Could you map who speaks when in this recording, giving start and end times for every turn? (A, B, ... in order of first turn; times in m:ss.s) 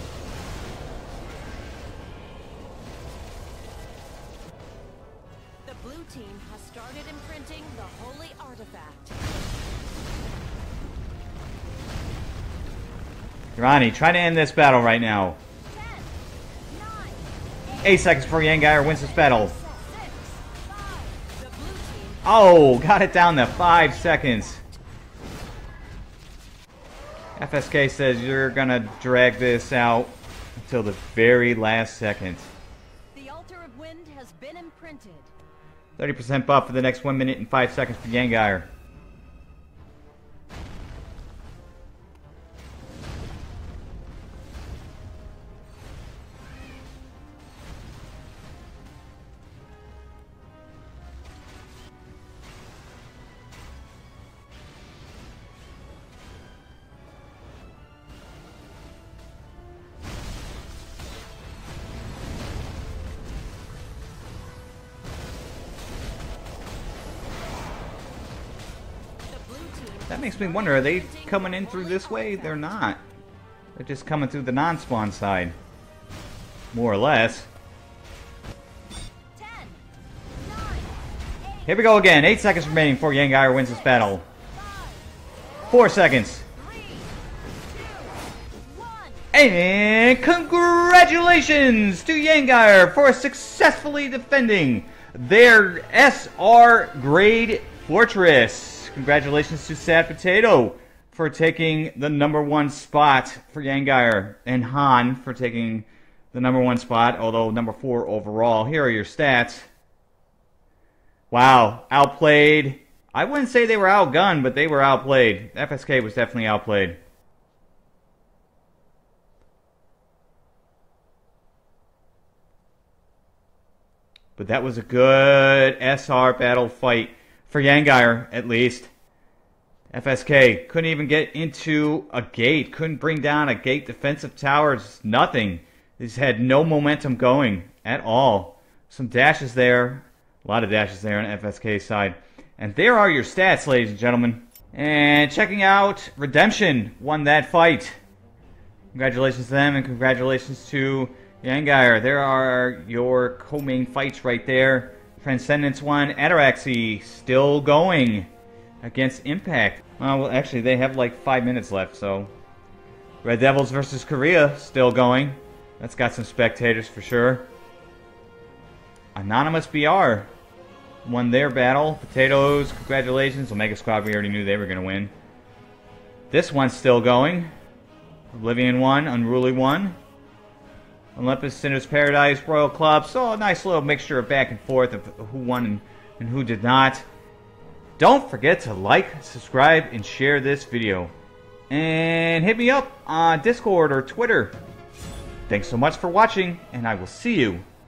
0:05.6-0:09.2 A
0:13.6-0:15.4 B
0:15.6-0:24.8 A
0:17.8-0:19.5 B
0:22.2-0:24.6 B
0:27.4-0:32.5 B
0:33.1-0:35.3 A
0:36.0-0:38.7 B
1:09.2-1:12.8 A
1:10.1-1:13.0 B
1:13.8-1:15.6 B
1:16.7-1:17.5 B
1:19.3-1:19.8 A
1:20.4-1:21.9 A
1:21.6-1:24.2 B
1:23.6-1:25.1 A
1:25.7-1:26.4 B
1:26.5-1:29.3 A
1:29.3-1:49.7 B
1:51.3-1:57.0 B
2:04.4-2:08.9 B
2:09.9-2:28.0 B
2:28.9-2:38.3 B
2:38.8-2:42.3 B
2:43.2-2:47.5 B
2:49.1-2:50.3 B
2:51.0-2:55.1 B
2:56.3-2:57.5 B
2:58.3-3:00.0 B
3:01.2-3:07.0 B
3:08.0-3:11.1 B
3:11.7-3:14.6 B
3:15.5-3:17.6 B